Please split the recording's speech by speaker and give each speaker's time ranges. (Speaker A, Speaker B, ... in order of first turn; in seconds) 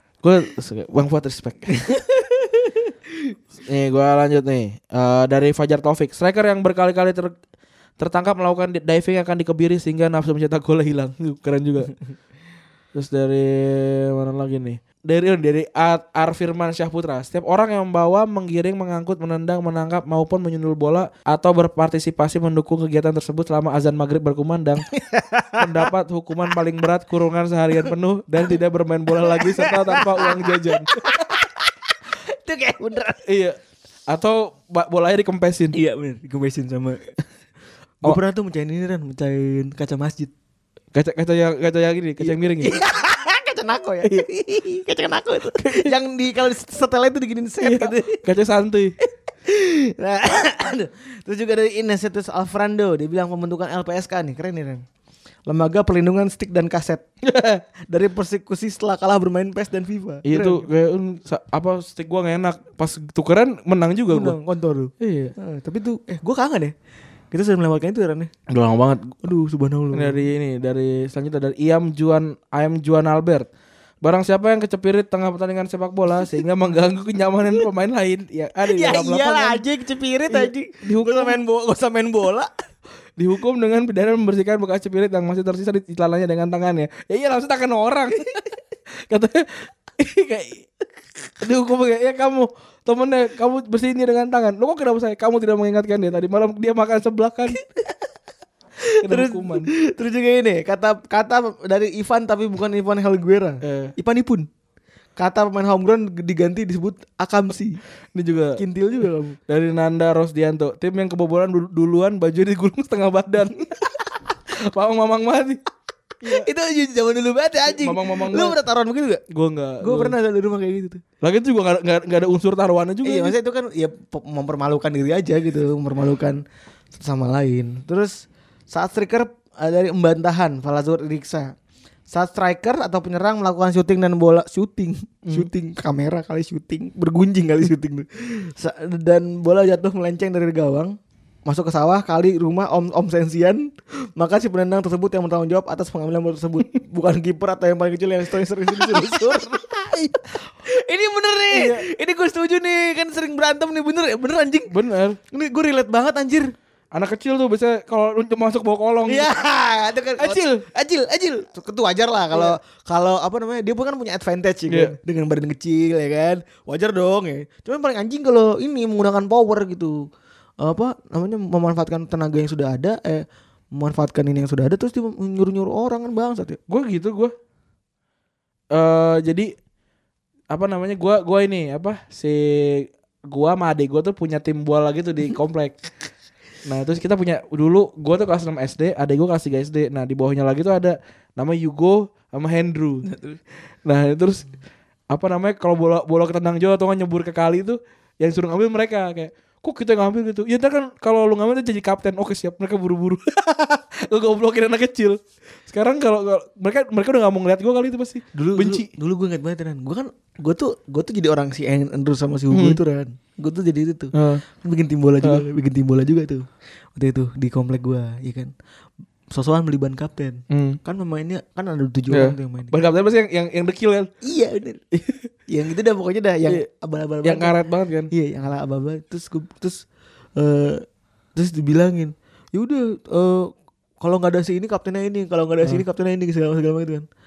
Speaker A: 0.2-1.8, 3.6-7.3, 8.0-11.9, 12.9-24.9, 25.6-31.0, 33.2-35.7, 40.9-42.7, 45.5-45.9, 47.6-48.9, 57.2-57.6, 60.2-64.4, 65.0-65.3, 68.5-69.2, 69.9-73.5, 74.0-79.6, 80.3-81.4, 83.2-88.4, 89.0-90.6, 91.4-97.6, 99.0-99.7, 103.6-103.9, 108.1-108.6, 109.5-114.0, 114.5-115.6, 116.2-116.5, 117.7-118.6, 119.3-120.1, 121.2-123.3, 151.5-151.8, 154.7-155.2, 156.9-159.3, 160.2-160.6, 164.7-164.9, 176.7-177.3, 178.7-179.5, 180.5-185.9, 186.6-193.1, 193.8-194.5, 195.1-208.9, 212.5-212.8, 214.1-214.4, 220.5-220.8, 222.1-224.1, 224.9-225.3, 227.2-228.1
Speaker B: 1.7-2.9, 24.9-25.9, 29.3-31.7, 32.3-33.2, 35.7-37.1, 38.0-40.3, 42.2-48.2, 49.4-54.8, 55.5-57.0, 57.9-60.7, 64.1-66.7, 67.3-68.3, 69.2-70.2, 78.7-82.5, 98.8-104.5, 105.2-107.8, 108.5-109.4, 116.2-119.2, 119.8-121.0, 123.0-126.4, 126.9-131.5, 132.1-154.7, 155.3-156.5, 159.1-170.0, 170.6-176.6, 193.1-193.4, 208.3-218.5, 219.3-222.7, 224.2-224.8, 225.5-227.6, 228.1-229.8, 230.4-230.8, 231.3-237.1